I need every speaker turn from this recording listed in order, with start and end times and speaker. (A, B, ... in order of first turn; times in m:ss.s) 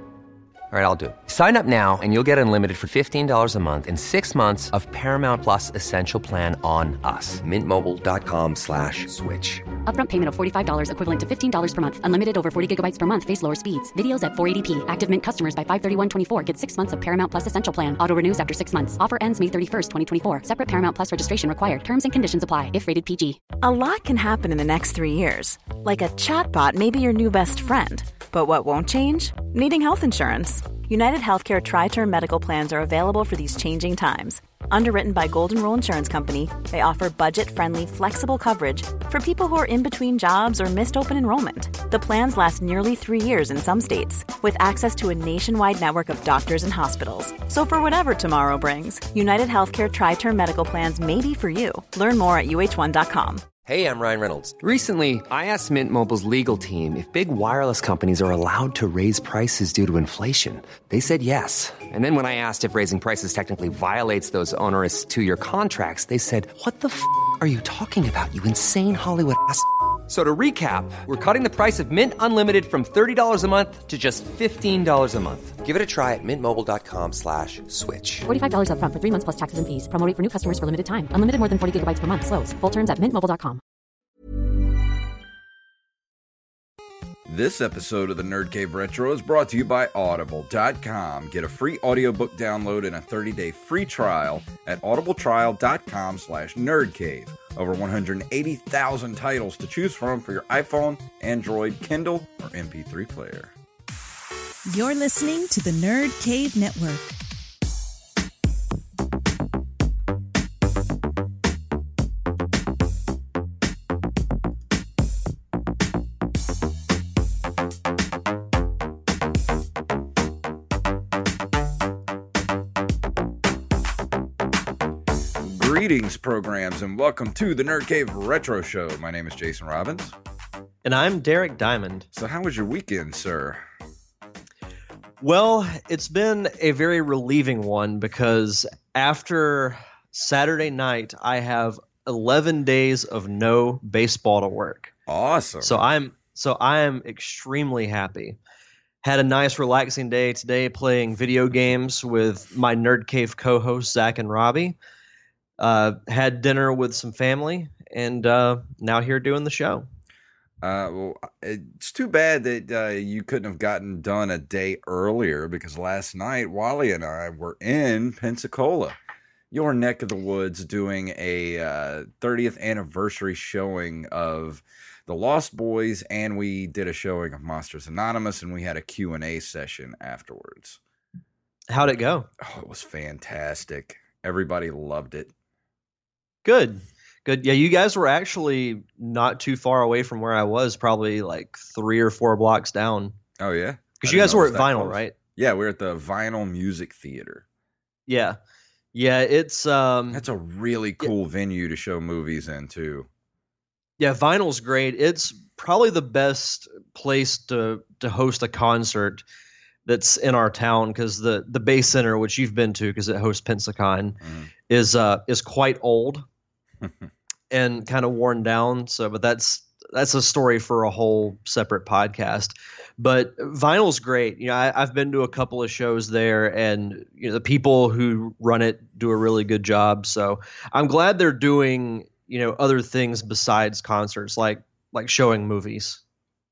0:00.7-0:09.7 A
0:09.8-0:23.4 B
0:23.6-0:53.4 C
0:53.6-1:18.2 A
1:18.2-1:23.6 B
1:27.2-1:43.5 D
1:44.7-1:47.1 E
2:05.4-2:10.1 D
2:10.8-2:12.1 F
2:12.1-2:13.6 D
2:15.2-2:24.9 F
2:25.1-2:25.8 D
2:25.6-2:28.4 F
2:29.0-2:34.8 F
2:35.6-2:39.9 F
2:40.6-2:49.0 D
2:49.5-3:00.8 D
3:01.7-3:02.3 F
3:02.4-3:05.3 D
3:06.4-3:13.1 F
3:13.4-3:17.4 D
3:14.0-3:15.1 F
3:18.1-3:18.4 F
3:18.9-3:20.2 F
3:20.1-3:23.1 D
3:24.0-3:29.2 F
3:29.8-3:36.2 F
3:34.2-3:34.5 D
3:36.8-3:37.1 D
3:37.5-3:56.0 F